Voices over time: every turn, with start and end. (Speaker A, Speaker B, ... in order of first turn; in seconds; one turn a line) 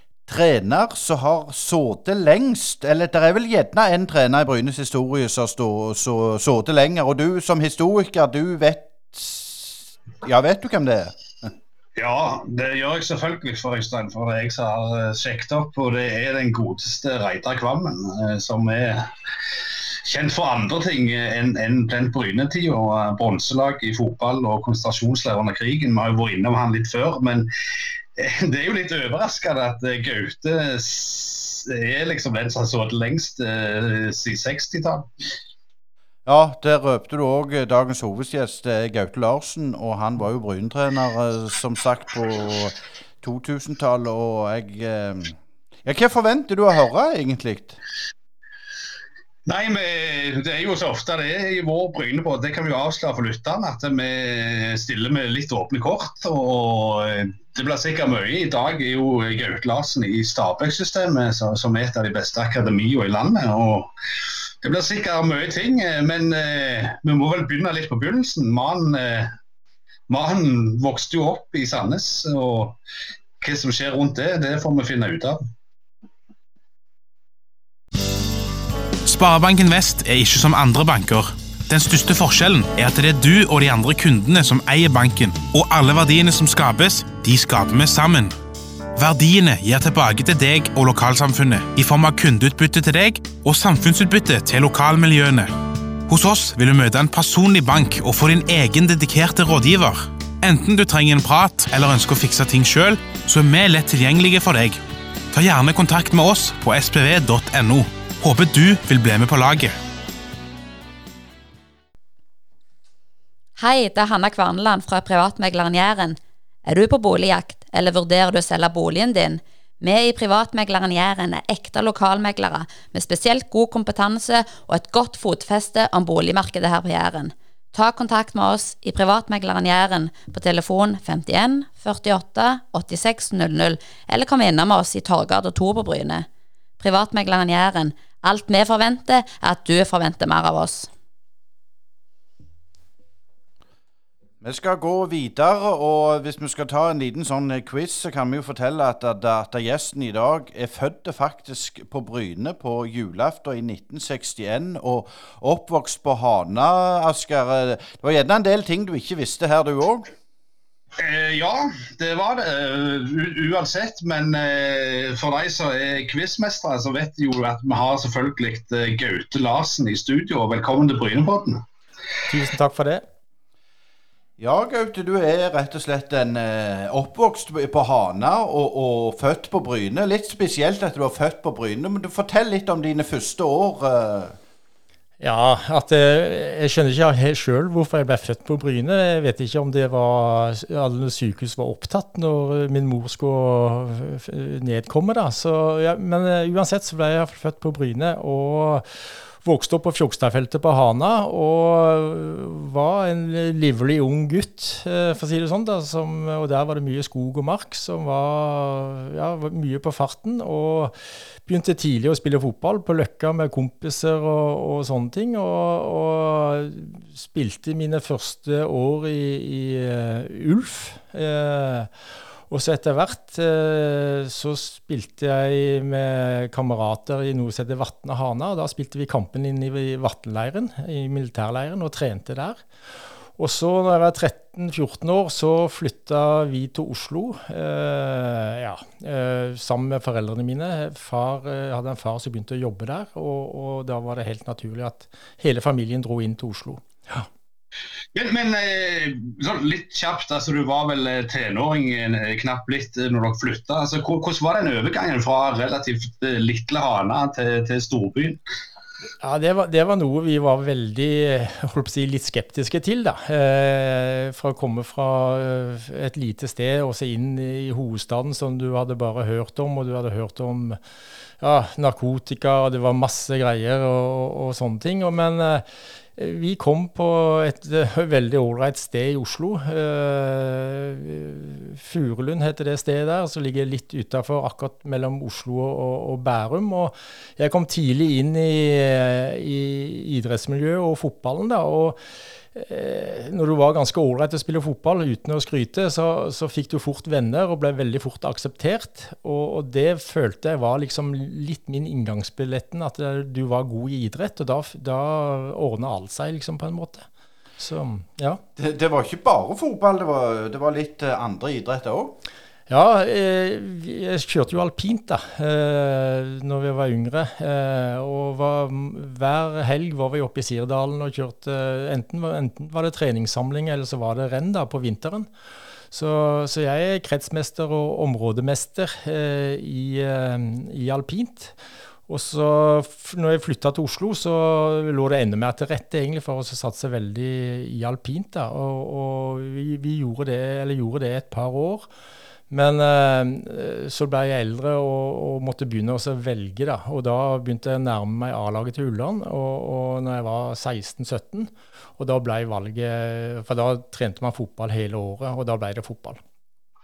Speaker A: 0.3-11.5
Speaker B: 11.9-19.1
Speaker B: 20.0-27.5
Speaker B: 28.1-35.1
Speaker A: 36.2-47.8
Speaker B: 49.5-63.9
Speaker B: 64.6-69.3
Speaker B: 70.1-72.8
Speaker B: 73.4-75.4
Speaker C: 79.0-88.4
Speaker C: 88.9-104.8
Speaker C: 105.3-109.8
Speaker D: 113.6-136.2
Speaker D: 136.8-140.9
Speaker A: 144.4-160.1
Speaker B: 161.0-171.6
Speaker E: 172.3-173.0
Speaker A: 174.4-184.4
Speaker E: 185.2-221.9
Speaker E: 222.5-232.6
Speaker E: 233.4-247.3
Speaker B: 248.1-258.4
Speaker E: 259.2-270.8
Speaker E: 271.4-292.0
Speaker E: 292.5-307.1
Speaker E: 307.6-308.4
Speaker A: 308.6-312.2
Speaker E: 312.7-325.3
Speaker E: 325.9-331.6
Speaker E: 332.1-341.9
Speaker E: 342.5-356.2